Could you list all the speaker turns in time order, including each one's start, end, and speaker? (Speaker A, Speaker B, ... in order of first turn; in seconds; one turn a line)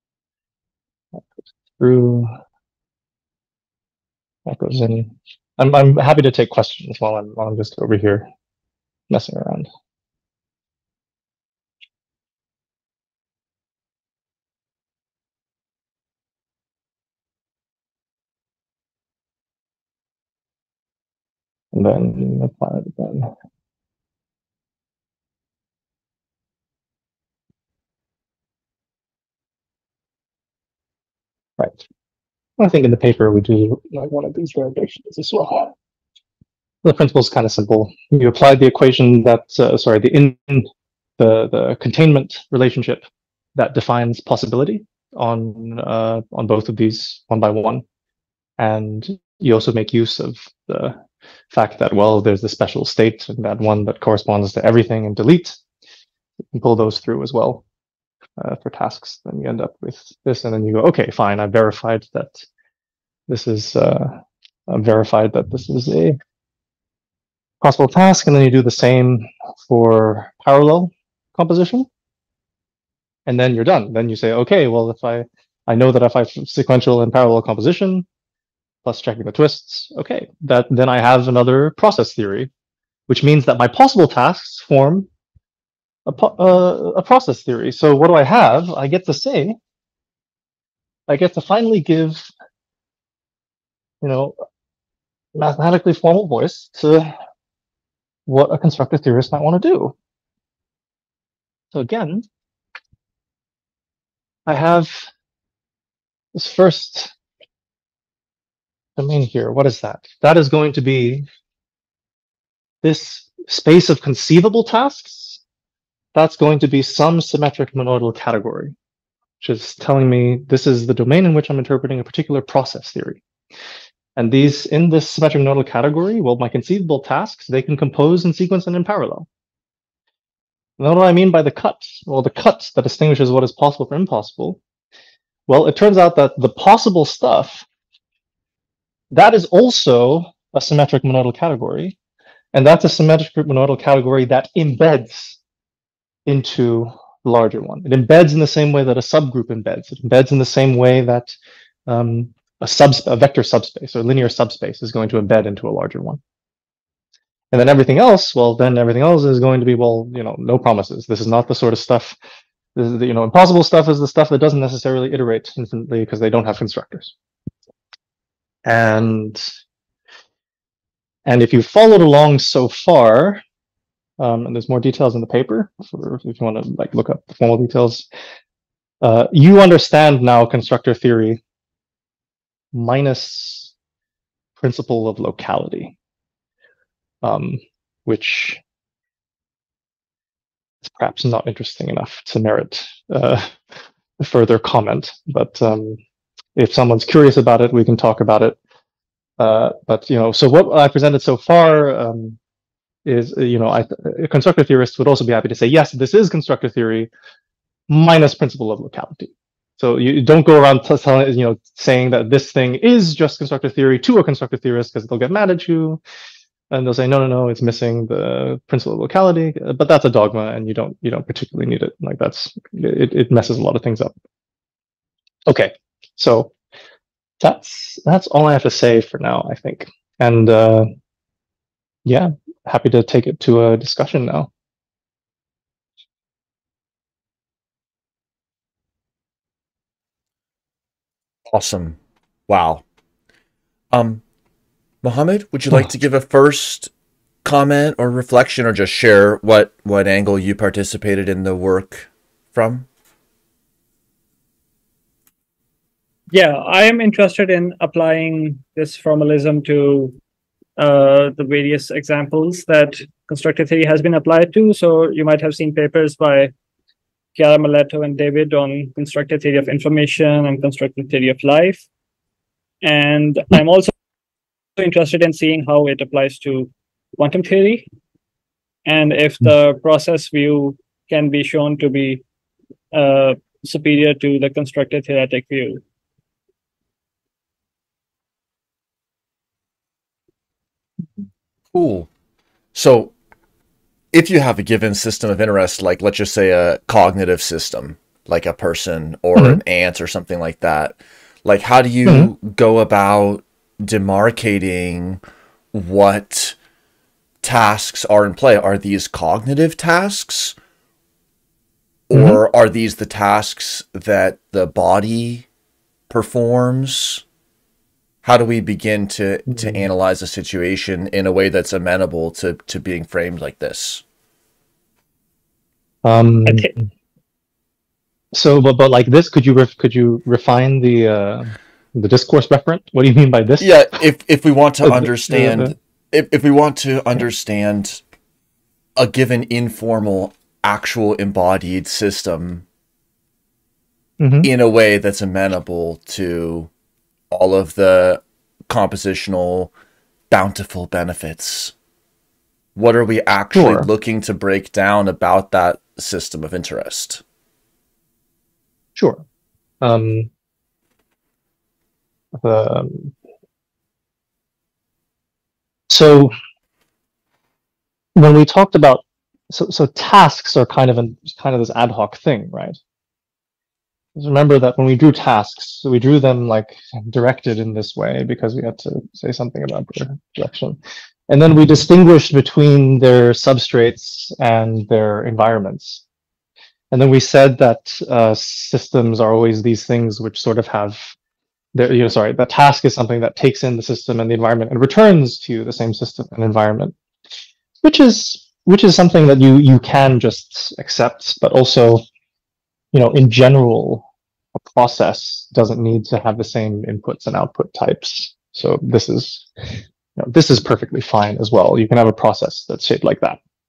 Speaker A: 1.8-2.3
Speaker A: 4.5-8.3
Speaker A: 9.1-9.7
Speaker A: 21.7-23.3
Speaker A: 32.6-35.7
Speaker A: 36.8-43.0
Speaker A: 43.5-47.8
Speaker A: 48.6-51.0
Speaker A: 51.5-55.6
Speaker A: 56.5-57.6
Speaker A: 58.4-62.5
Speaker A: 63.3-66.2
Speaker A: 67.6-71.9
Speaker A: 73.2-78.0
Speaker A: 78.8-82.5
Speaker A: 83.1-85.1
Speaker A: 86.0-89.5
Speaker A: 91.1-92.3
Speaker A: 94.0-94.3
Speaker A: 95.3-97.1
Speaker A: 98.3-99.9
Speaker A: 101.7-102.2
Speaker A: 104.5-105.0
Speaker A: 106.3-107.1
Speaker A: 109.0-111.2
Speaker A: 112.8-115.4
Speaker A: 116.1-118.7
Speaker A: 119.4-123.2
Speaker A: 124.2-129.3
Speaker A: 130.8-134.6
Speaker A: 135.5-137.7
Speaker A: 139.1-141.9
Speaker A: 142.5-145.4
Speaker A: 146.2-151.3
Speaker A: 151.9-156.2
Speaker A: 157.5-162.2
Speaker A: 162.8-167.1
Speaker A: 168.7-169.4
Speaker A: 171.2-173.4
Speaker A: 174.2-178.1
Speaker A: 179.0-181.4
Speaker A: 182.7-183.7
Speaker A: 184.6-185.9
Speaker A: 187.2-188.6
Speaker A: 190.8-193.6
Speaker A: 194.2-196.0
Speaker A: 196.6-198.6
Speaker A: 199.4-202.4
Speaker A: 203.0-207.1
Speaker A: 207.9-216.0
Speaker A: 216.7-224.1
Speaker A: 225.5-226.5
Speaker A: 227.4-230.9
Speaker A: 232.0-234.5
Speaker B: 241.5-242.8
Speaker B: 243.9-244.2
Speaker B: 245.0-246.9
Speaker B: 247.4-252.9
Speaker C: 256.3-260.1
Speaker C: 260.8-266.5
Speaker C: 267.3-271.8
Speaker C: 272.8-273.9
Speaker C: 274.8-277.9
Speaker C: 278.9-282.2
Speaker C: 282.9-285.8
Speaker B: 291.7-292.1
Speaker B: 292.7-293.1
Speaker B: 294.1-305.2
Speaker A: 302.1-302.3
Speaker B: 305.7-306.6
Speaker B: 307.4-310.6
Speaker B: 312.1-315.5
Speaker A: 312.1-312.4
Speaker B: 316.1-317.2
Speaker B: 318.2-324.0
Speaker A: 326.0-326.7
Speaker A: 328.3-334.0
Speaker B: 333.6-338.0
Speaker A: 334.8-335.7
Speaker B: 338.9-342.6
Speaker A: 344.2-344.5
Speaker B: 344.4-346.7
Speaker B: 347.3-349.7
Speaker B: 350.3-351.7
Speaker B: 352.8-357.2
Speaker A: 353.5-353.9
Speaker A: 358.9-359.2
Speaker A: 359.8-360.3
Speaker A: 362.4-363.1
Speaker A: 365.9-366.3
Speaker A: 368.1-372.8
Speaker A: 374.1-380.8
Speaker A: 381.3-386.0
Speaker A: 386.9-391.1
Speaker A: 391.7-396.9
Speaker A: 397.8-402.0
Speaker A: 402.9-404.1
Speaker A: 404.7-409.5
Speaker A: 410.2-413.4